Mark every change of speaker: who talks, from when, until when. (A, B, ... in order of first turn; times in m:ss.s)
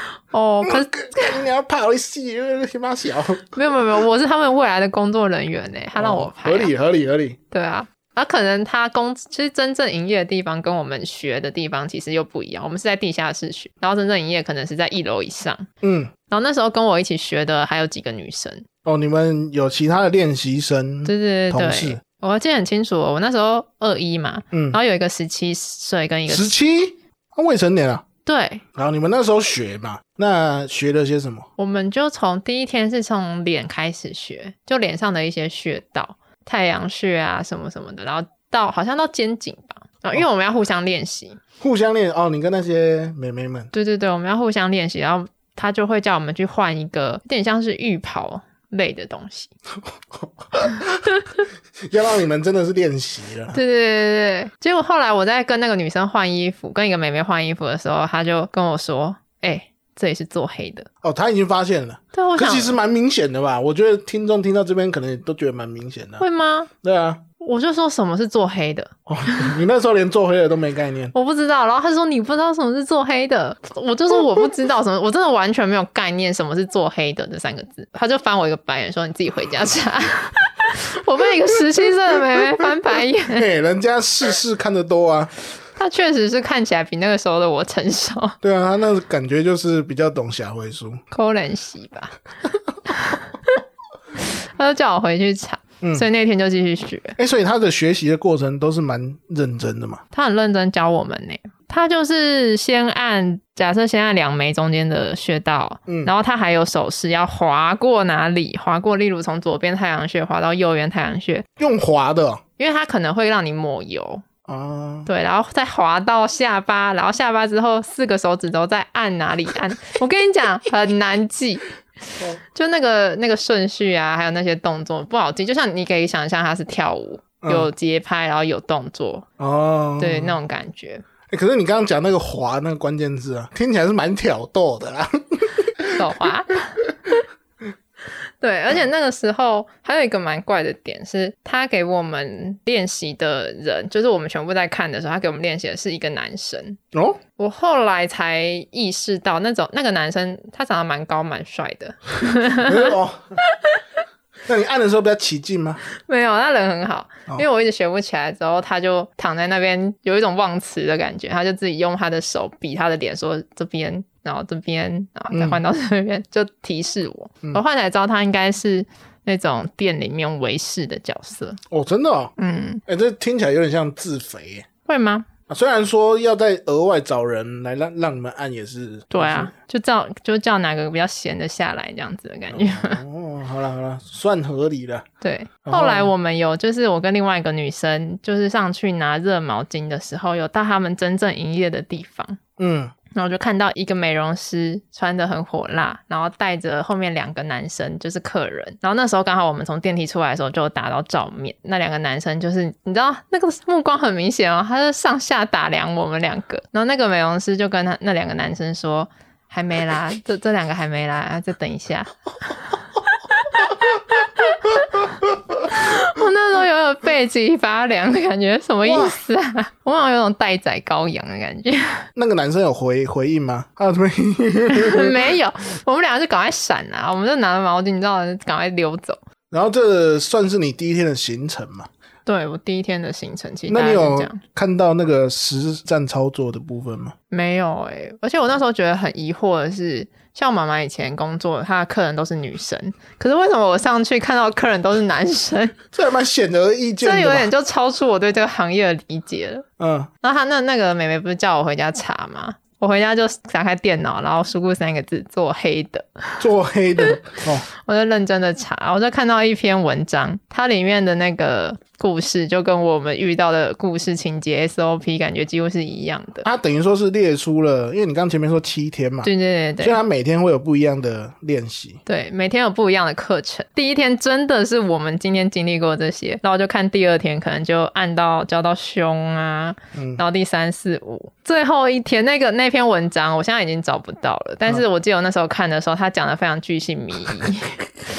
0:00.3-0:01.3 A
0:00.6-0:03.6 B
0:03.5-0:06.7 A
0:05.9-0:07.4 B
0:07.5-0:15.7 A
0:15.8-0:16.1 B
0:16.3-0:18.6 A
0:18.8-0:22.0 B
0:21.0-0:26.5 A
0:24.5-0:24.8 B
0:26.3-0:28.0 B
0:28.2-0:28.6 A
0:28.7-0:31.5 B
0:31.6-0:41.4 A
0:41.6-0:43.7 B
0:43.7-0:49.5 A
0:50.0-0:51.0 B
0:51.8-0:53.6 B
0:53.5-1:00.9 A
1:01.0-1:06.2 B
1:02.1-1:02.8 A
1:06.2-1:06.7 A
1:06.8-1:07.2 B
1:07.4-1:09.4 A
1:09.1-1:11.1 B
1:11.1-1:23.4 A
1:23.3-1:25.3 B
1:25.8-1:28.4 A
1:28.4-1:31.0 B
1:31.1-1:32.2 A
1:32.9-1:33.5 A
1:34.5-1:37.2 A
1:35.8-1:36.1 B
1:37.2-1:40.0 B
1:40.1-1:51.4 A
1:51.6-1:52.4 B
1:52.6-1:54.2 A
1:54.5-1:55.1 B
1:55.0-2:01.6 A
2:02.4-2:09.2 A
2:07.4-2:07.7 B
2:09.4-2:10.4 B
2:10.0-2:11.0 A
2:11.3-2:16.0 B
2:15.9-2:16.8 A
2:18.4-2:26.8 A
2:26.9-2:27.2 B
2:27.4-2:32.9 A
2:32.6-2:33.4 B
2:33.5-2:33.8 A
2:34.5-2:35.8 B
2:36.0-2:51.6 A
2:45.3-2:45.6 B
2:51.7-2:52.3 B
2:52.4-2:52.8 A
2:52.9-2:54.6 B
2:54.8-2:55.3 A
2:55.5-2:59.5 B
2:59.1-3:03.0 A
3:02.5-3:05.0 B
3:05.2-3:12.4 A
3:05.6-3:06.1 B
3:12.6-3:12.9 B
3:13.1-3:35.0 A
3:35.6-3:42.0 A
3:38.8-3:39.2 B
3:42.1-3:45.2 B
3:44.7-3:49.2 A
3:49.5-3:51.9 B
3:52.2-3:54.4 A
3:53.7-3:57.1 B
3:57.3-4:05.8 A
4:05.9-4:07.5 B
4:07.0-4:09.6 A
4:09.8-4:10.1 B
4:10.2-4:16.3 A
4:16.4-4:17.7 B
4:17.8-4:26.5 A
4:26.4-4:29.3 B
4:29.2-4:30.0 A
4:29.8-4:32.0 B
4:32.0-4:47.8 A
4:39.9-4:40.2 B